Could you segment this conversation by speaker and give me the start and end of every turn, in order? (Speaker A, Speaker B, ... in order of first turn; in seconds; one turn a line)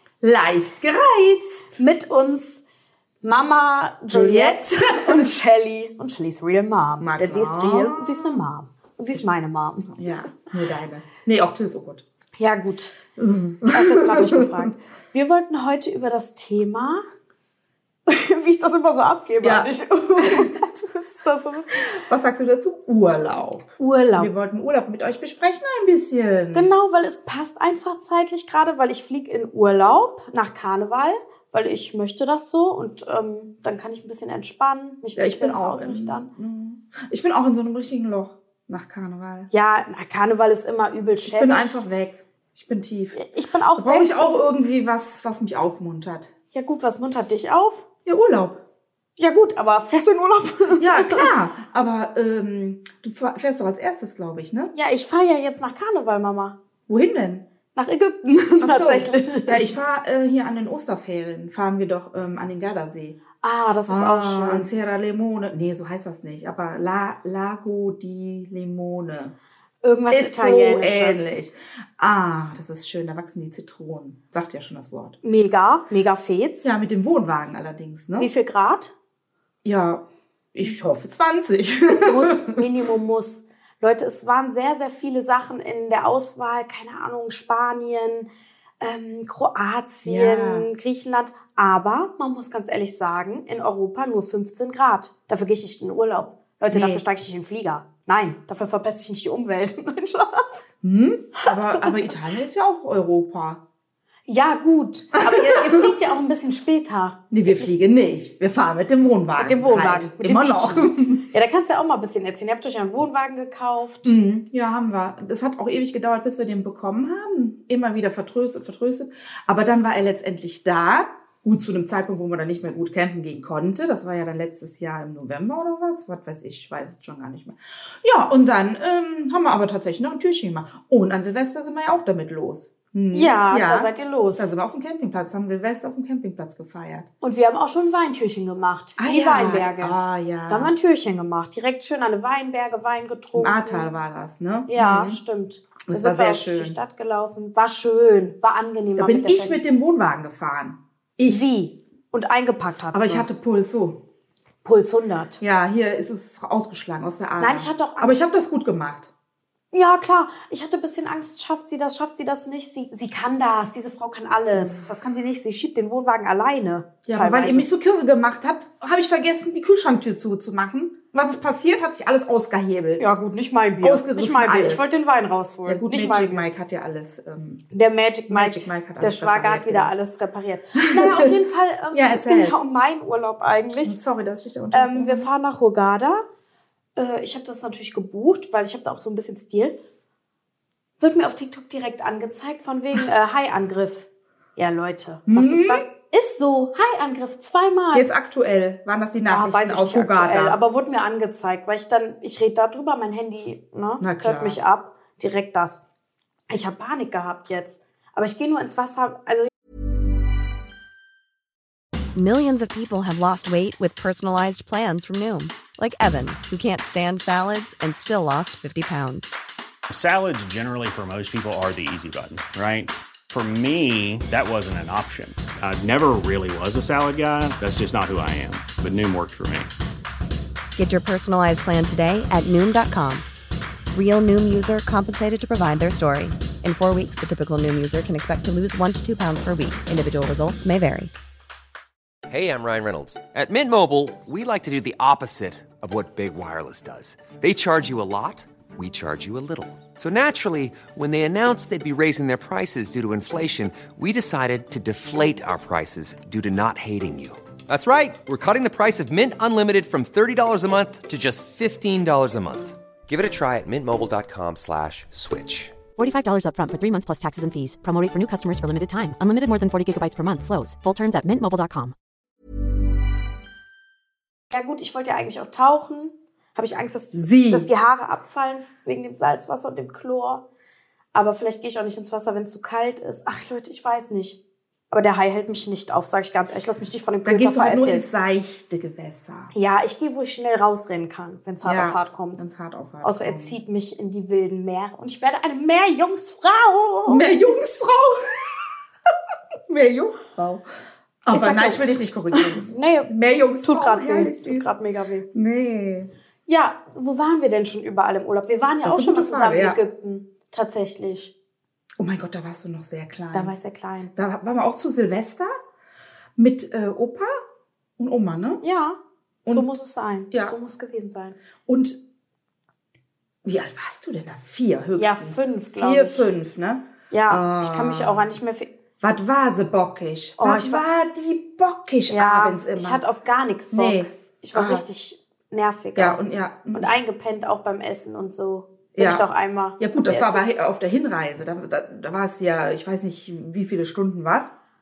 Speaker A: 0.2-1.8
Speaker B: 1.8-2.6
Speaker B: 3.2-10.1
Speaker A: 4.1-5.3
Speaker A: 7.0-8.4
Speaker A: 9.9-12.1
Speaker B: 12.4-13.0
Speaker A: 13.2-14.7
Speaker B: 13.7-17.1
Speaker B: 18.1-22.0
Speaker A: 19.4-20.5
Speaker A: 21.8-26.7
Speaker B: 23.8-24.3
Speaker B: 26.5-36.3
Speaker A: 35.1-39.5
Speaker B: 39.5-41.9
Speaker A: 41.3-43.2
Speaker B: 43.1-44.3
Speaker A: 43.8-46.3
Speaker B: 46.5-47.9
Speaker A: 48.1-48.6
Speaker B: 49.2-51.3
Speaker A: 50.8-54.7
Speaker B: 54.7-56.6
Speaker A: 56.9-57.5
Speaker B: 57.8-59.7
Speaker A: 58.6-63.2
Speaker B: 63.4-64.7
Speaker A: 63.9-69.4
Speaker B: 69.8-71.4
Speaker A: 70.1-75.2
Speaker B: 75.2-76.7
Speaker A: 76.6-78.3
Speaker B: 78.2-78.9
Speaker A: 79.6-82.6
Speaker B: 82.0-88.3
Speaker B: 88.8-100.5
Speaker A: 90.0-90.7
Speaker A: 96.7-97.0
Speaker A: 100.8-103.6
Speaker B: 101.5-101.9
Speaker B: 104.3-107.7
Speaker A: 105.3-105.9
Speaker A: 107.3-111.2
Speaker B: 109.4-114.2
Speaker A: 114.0-137.1
Speaker B: 133.1-134.5
Speaker B: 137.2-140.0
Speaker A: 139.0-140.7
Speaker B: 140.5-143.9
Speaker A: 143.4-145.2
Speaker B: 144.7-149.6
Speaker A: 145.9-146.8
Speaker A: 149.0-151.5
Speaker B: 151.3-153.3
Speaker A: 152.9-154.0
Speaker B: 154.7-155.4
Speaker A: 155.4-159.1
Speaker B: 157.4-158.4
Speaker B: 159.7-167.7
Speaker A: 164.5-164.8
Speaker A: 167.1-173.1
Speaker B: 173.0-176.5
Speaker A: 173.8-174.9
Speaker A: 175.7-177.6
Speaker B: 177.7-184.0
Speaker A: 178.3-179.9
Speaker A: 180.8-181.4
Speaker A: 181.9-182.6
Speaker A: 183.8-185.3
Speaker B: 184.7-186.2
Speaker B: 187.0-189.8
Speaker B: 191.0-198.1
Speaker A: 195.3-195.9
Speaker A: 197.9-200.6
Speaker B: 199.3-205.8
Speaker A: 204.0-204.6
Speaker B: 206.5-209.5
Speaker C: 212.2-219.4
Speaker D: 219.9-229.7
Speaker C: 230.8-233.2
Speaker C: 233.9-241.1
Speaker E: 242.3-265.8
Speaker F: 266.0-271.9
Speaker B: 274.5-280.4
Speaker A: 277.1-277.7
Speaker B: 281.1-284.4
Speaker B: 284.9-288.1
Speaker A: 287.2-289.5
Speaker B: 289.5-292.4
Speaker A: 291.6-293.6
Speaker B: 293.0-297.2
Speaker A: 297.1-298.7
Speaker A: 299.7-300.7
Speaker A: 301.2-304.7
Speaker B: 301.3-303.1
Speaker B: 303.6-305.3
Speaker A: 305.3-306.1
Speaker B: 306.5-311.3
Speaker A: 308.8-309.8
Speaker A: 312.0-313.5
Speaker B: 313.3-314.1
Speaker A: 314.1-315.5
Speaker A: 316.4-317.3
Speaker A: 318.0-318.6
Speaker B: 318.6-321.4
Speaker A: 319.4-319.7
Speaker A: 320.3-320.6
Speaker A: 321.7-322.0
Speaker A: 323.4-328.3
Speaker B: 325.0-326.3
Speaker B: 327.1-328.7
Speaker A: 329.0-333.0
Speaker B: 330.4-330.8
Speaker B: 332.1-340.4
Speaker A: 333.7-334.9
Speaker A: 335.9-337.0
Speaker A: 339.0-339.3
Speaker A: 339.8-344.5